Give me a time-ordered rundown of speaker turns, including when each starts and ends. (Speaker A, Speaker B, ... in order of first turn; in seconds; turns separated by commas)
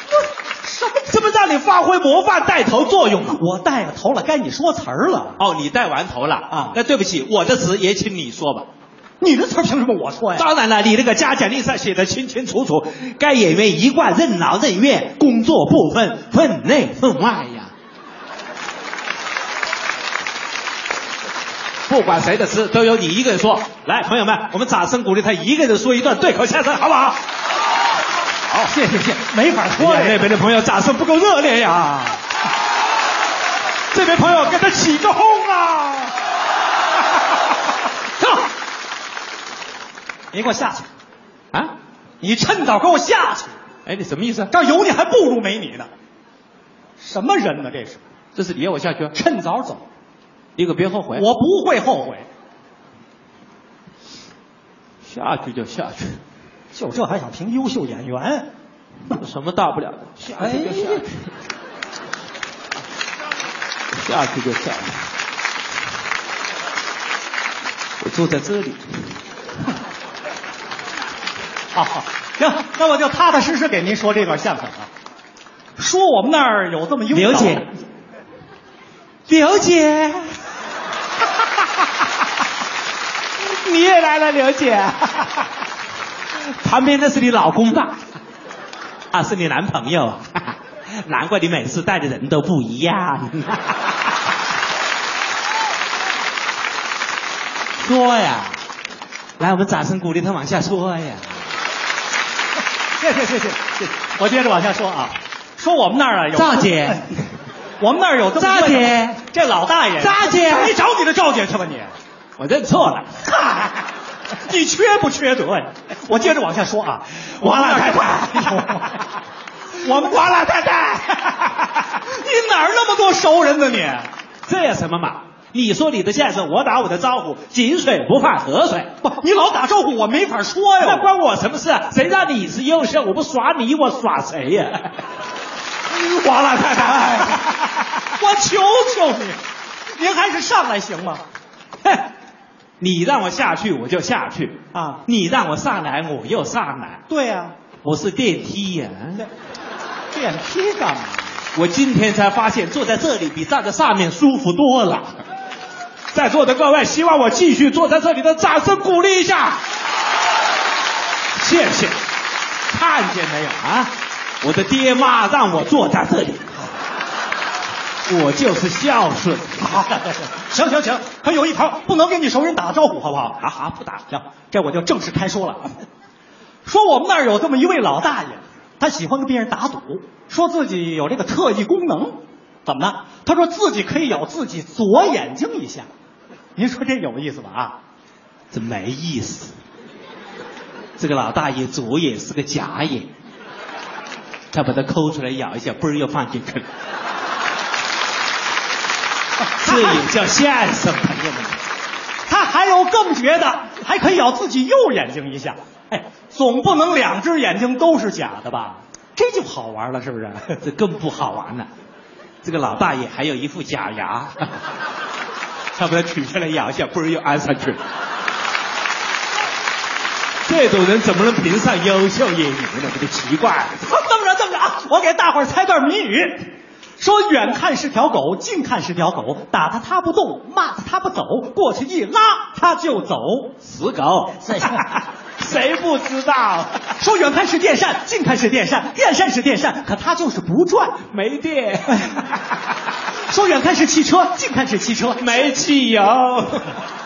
Speaker A: 0.6-1.1, Speaker B: 1.1-3.4, Speaker A: 3.3-5.4, Speaker B: 5.4-8.7, Speaker A: 6.5-6.8, Speaker A: 9.2-10.5, Speaker B: 10.3-17.7, Speaker B: 21.9-27.2, Speaker A: 28.7-30.3, Speaker B: 29.8-32.2, Speaker B: 33.9-36.2, Speaker A: 40.3-40.9, Speaker A: 42.2-43.6, Speaker B: 43.9-44.5, Speaker A: 44.5-45.9, Speaker A: 47.0-48.0, Speaker B: 48.4-49.1, Speaker A: 49.1-49.8, Speaker B: 50.6-51.3, Speaker A: 51.1-52.3, Speaker B: 55.0-56.2, Speaker A: 56.7-58.5, Speaker B: 59.1-61.3, Speaker A: 60.4-61.0, Speaker B: 63.9-65.0, Speaker B: 68.0-69.1, Speaker A: 71.7-74.9, Speaker A: 75.8-77.7, Speaker B: 77.1-77.7, Speaker B: 79.3-80.4, Speaker B: 83.4-85.5, Speaker B: 86.3-88.0, Speaker B: 89.1-93.9, Speaker B: 97.8-98.6, Speaker B: 99.4-101.4, Speaker A: 103.0-107.1, Speaker B: 106.3-107.2, Speaker A: 107.8-111.9, Speaker B: 108.3-109.2, Speaker B: 110.0-110.8, Speaker B: 112.4-113.2, Speaker A: 113.4-113.7, Speaker A: 114.4-119.0, Speaker B: 117.2-119.0, Speaker B: 119.8-121.4, Speaker A: 119.8-120.2, Speaker A: 121.8-124.1, Speaker B: 124.5-128.9, Speaker A: 129.0-131.1, Speaker B: 130.8-135.0, Speaker B: 135.9-137.7, Speaker A: 138.2-139.4, Speaker A: 139.9-141.2, Speaker B: 142.8-147.0, Speaker A: 144.7-145.0, Speaker A: 147.1-147.6, Speaker B: 147.8-149.3, Speaker A: 150.1-151.4, Speaker B: 151.5-155.2, Speaker B: 156.1-159.6, Speaker B: 161.4-162.0, Speaker B: 162.7-166.5, Speaker B: 168.1-169.7, Speaker A: 169.6-173.5, Speaker B: 173.4-174.1, Speaker A: 174.1-175.8, Speaker A: 176.7-185.9, Speaker A: 186.6-187.8, Speaker B: 188.5-189.6, Speaker B: 191.0-193.1, Speaker B: 194.5-196.7, Speaker A: 199.4-200.1, Speaker B: 199.6-201.6, Speaker A: 202.3-210.6, Speaker B: 210.6-211.7, Speaker B: 212.4-214.5, Speaker B: 215.8-217.8, Speaker B: 220.4-223.8, Speaker A: 223.8-226.4, Speaker A: 227.0-233.6, Speaker B: 233.6-236.9, Speaker A: 237.0-241.0, Speaker B: 241.1-242.3, Speaker A: 241.9-242.2, Speaker A: 243.3-245.3, Speaker B: 245.2-246.8